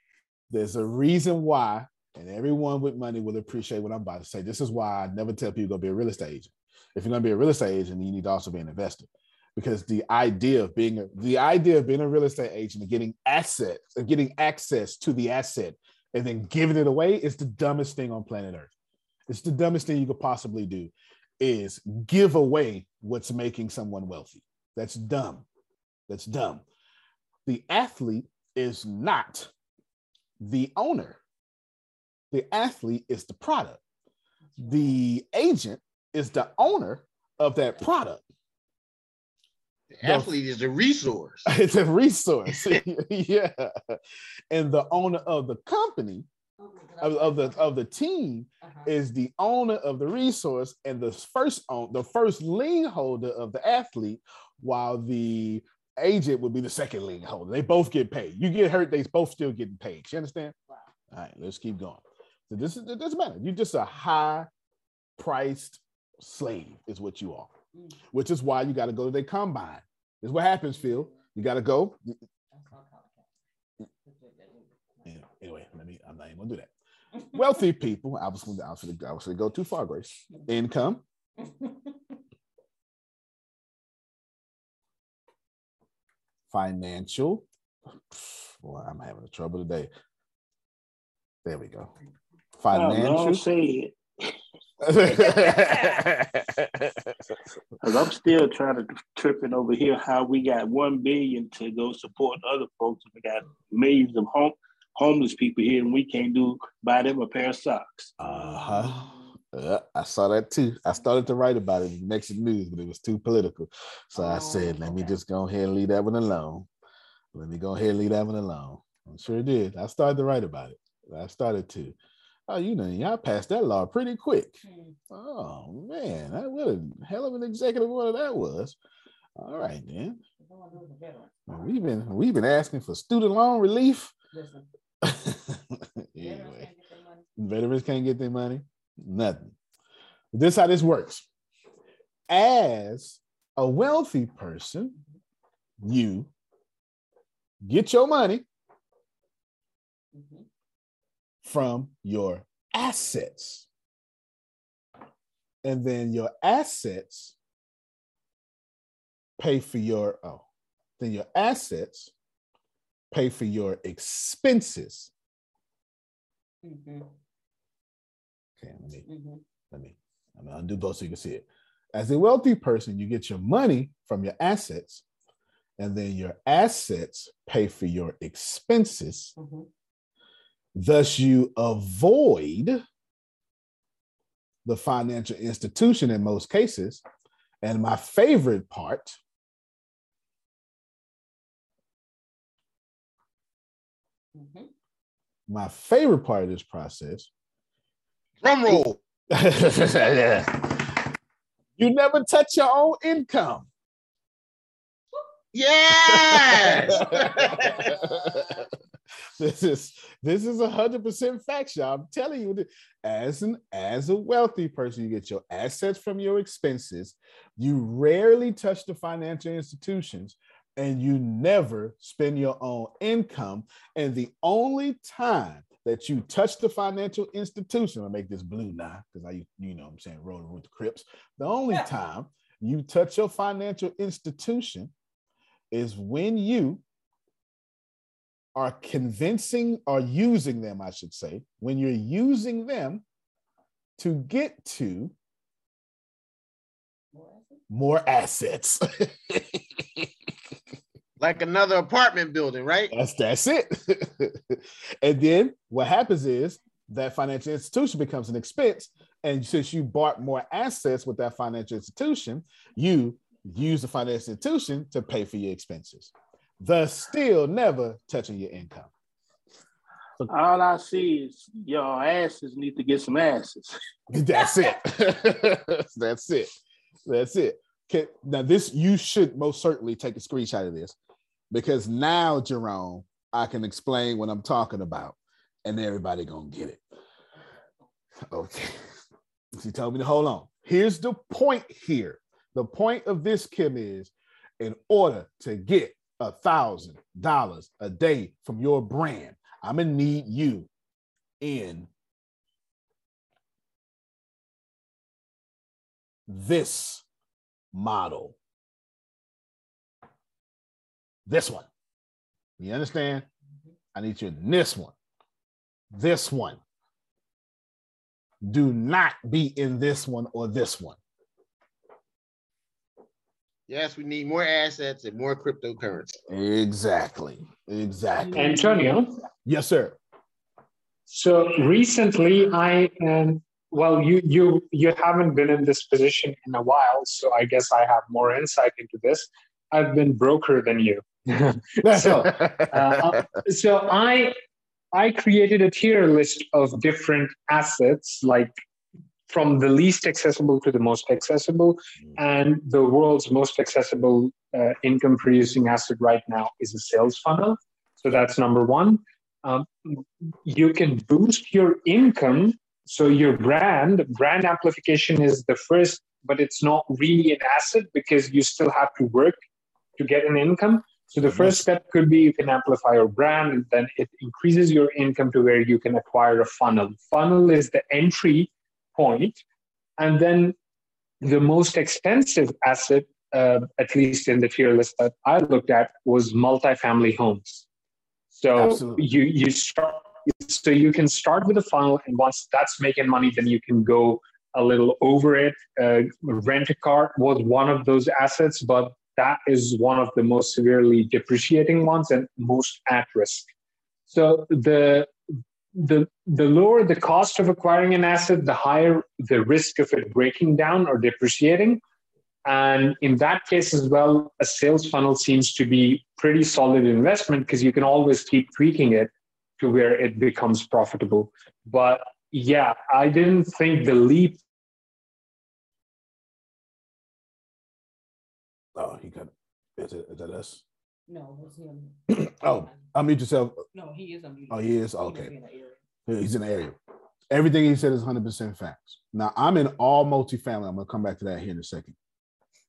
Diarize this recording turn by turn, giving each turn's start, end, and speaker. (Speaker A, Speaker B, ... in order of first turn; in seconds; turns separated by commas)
Speaker A: 0.5-18.7, Speaker A: 19.3-25.5, Speaker A: 26.1-26.6, Speaker A: 27.5-29.5, Speaker A: 30.4-31.2, Speaker A: 32.3-33.8, Speaker A: 34.6-38.2, Speaker B: 39.9-41.5, Speaker A: 40.0-40.3, Speaker A: 41.5-44.0, Speaker A: 44.5-46.3, Speaker C: 46.6-47.6, Speaker A: 47.0-60.5, Speaker A: 61.1-64.5, Speaker A: 65.2-67.5, Speaker A: 68.1-72.2, Speaker C: 70.8-71.1, Speaker C: 72.5-73.2, Speaker C: 74.1-74.7, Speaker A: 75.0-76.7, Speaker A: 77.3-81.0, Speaker C: 81.5-81.8, Speaker A: 86.5-87.5, Speaker A: 88.1-89.9, Speaker A: 91.5-91.9, Speaker A: 92.6-93.5, Speaker D: 92.7-93.9, Speaker A: 94.8-97.1, Speaker D: 97.8-108.1, Speaker A: 108.2-116.7, Speaker C: 114.2-115.2, Speaker A: 117.3-122.0, Speaker A: 122.5-128.8, Speaker C: 124.7-124.9, Speaker A: 129.4-130.2, Speaker C: 130.4-131.3, Speaker A: 131.5-134.1, Speaker C: 134.3-134.7, Speaker A: 135.0-136.7, Speaker C: 136.2-137.2, Speaker A: 137.4-139.6, Speaker A: 140.3-141.3, Speaker A: 142.3-145.0, Speaker A: 145.8-146.3, Speaker A: 147.6-148.4, Speaker A: 151.4-153.7, Speaker A: 155.6-157.4, Speaker A: 159.4-160.4, Speaker A: 161.0-162.1, Speaker A: 163.1-165.1, Speaker C: 166.7-167.1, Speaker A: 168.6-169.1, Speaker C: 169.1-169.4, Speaker A: 169.7-175.0, Speaker A: 175.8-179.3, Speaker C: 179.4-179.7, Speaker A: 180.8-182.8, Speaker A: 184.7-187.0, Speaker A: 187.6-189.2, Speaker C: 194.4-194.7, Speaker A: 195.5-197.3, Speaker B: 198.4-199.0, Speaker A: 198.7-201.1, Speaker A: 201.8-203.7, Speaker B: 205.5-207.9, Speaker A: 205.9-208.7, Speaker A: 209.4-234.9, Speaker A: 235.7-236.8, Speaker A: 238.6-243.0, Speaker A: 244.0-245.1, Speaker C: 247.2-247.4, Speaker A: 247.7-250.1, Speaker B: 251.2-252.9, Speaker A: 252.9-268.9, Speaker D: 270.2-273.7, Speaker A: 274.1-276.5, Speaker A: 277.1-281.0, Speaker A: 281.5-286.8, Speaker A: 288.3-288.8, Speaker A: 289.6-300.7, Speaker A: 301.4-301.9, Speaker A: 306.3-307.1, Speaker A: 307.7-308.4, Speaker A: 311.3-311.7, Speaker A: 312.6-313.3, Speaker A: 313.9-314.9, Speaker A: 315.9-316.6, Speaker A: 318.4-321.0, Speaker B: 323.7-326.2, Speaker A: 326.3-328.8, Speaker E: 328.3-329.1, Speaker A: 329.4-330.0, Speaker E: 331.1-344.4, Speaker A: 341.8-343.2, Speaker E: 344.9-348.6, Speaker E: 349.3-369.4, Speaker E: 370.0-379.4, Speaker A: 371.3-371.6, Speaker E: 380.0-380.6, Speaker E: 381.2-387.6, Speaker E: 388.3-403.5, Speaker A: 388.6-389.1, Speaker E: 404.1-405.1, Speaker E: 405.8-411.8, Speaker E: 412.4-424.4, Speaker A: 428.8-430.6, Speaker C: 431.1-431.9, Speaker A: 432.1-433.6, Speaker C: 433.7-435.7, Speaker A: 434.5-435.3, Speaker A: 436.1-436.8, Speaker A: 437.3-441.9